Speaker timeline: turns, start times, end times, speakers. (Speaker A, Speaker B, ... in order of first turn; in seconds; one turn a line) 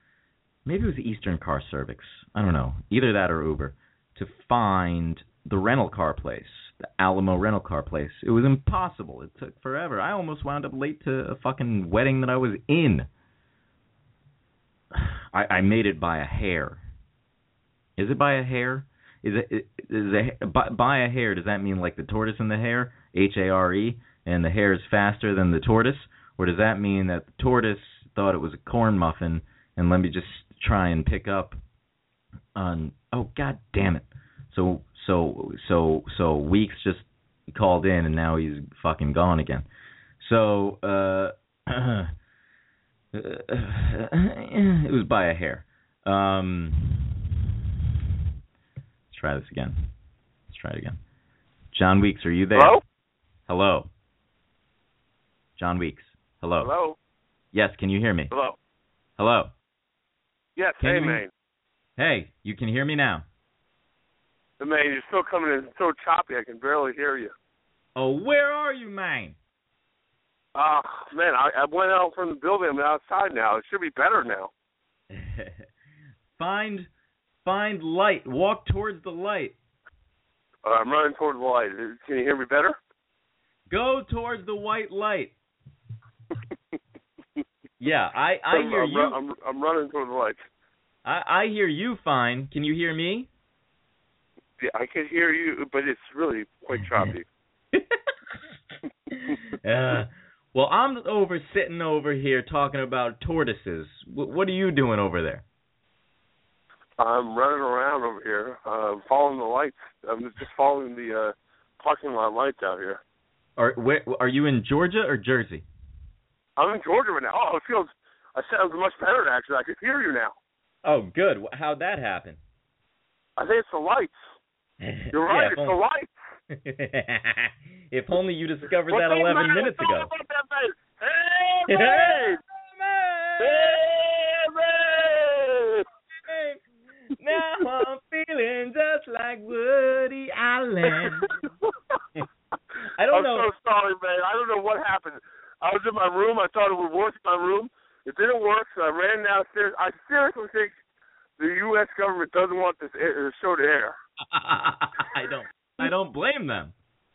Speaker A: 0.7-13.1
Speaker A: 14.9-16.8
Speaker A: 18.0-31.6
Speaker A: 32.5-39.6
Speaker A: 40.2-42.1
Speaker A: 43.1-47.2
Speaker A: 49.1-49.9
Speaker A: 50.5-51.0
Speaker A: 51.7-52.8
Speaker B: 52.5-52.8
Speaker A: 53.5-53.9
Speaker A: 55.6-56.7
Speaker B: 56.6-57.0
Speaker A: 57.5-58.3
Speaker B: 58.3-58.5
Speaker A: 59.2-59.5
Speaker B: 60.6-61.3
Speaker A: 60.8-61.2
Speaker A: 62.0-63.2
Speaker B: 64.6-67.3
Speaker A: 68.0-69.4
Speaker B: 70.5-74.5
Speaker A: 75.1-75.6
Speaker A: 76.4-76.9
Speaker A: 77.4-79.5
Speaker B: 80.6-82.8
Speaker A: 83.7-85.3
Speaker A: 87.8-89.1
Speaker B: 88.5-90.4
Speaker A: 91.0-93.3
Speaker B: 94.6-97.2
Speaker A: 99.6-105.4
Speaker B: 107.0-113.0
Speaker A: 113.6-115.6
Speaker B: 116.6-120.3
Speaker A: 120.8-122.4
Speaker B: 123.4-124.3
Speaker A: 124.8-125.8
Speaker B: 125.1-126.1
Speaker A: 126.5-130.1
Speaker B: 128.9-132.4
Speaker A: 131.7-133.8
Speaker B: 133.4-135.8
Speaker A: 136.2-136.6
Speaker A: 137.2-141.3
Speaker A: 142.9-143.5
Speaker B: 143.1-150.8
Speaker B: 151.4-153.9
Speaker A: 154.3-156.7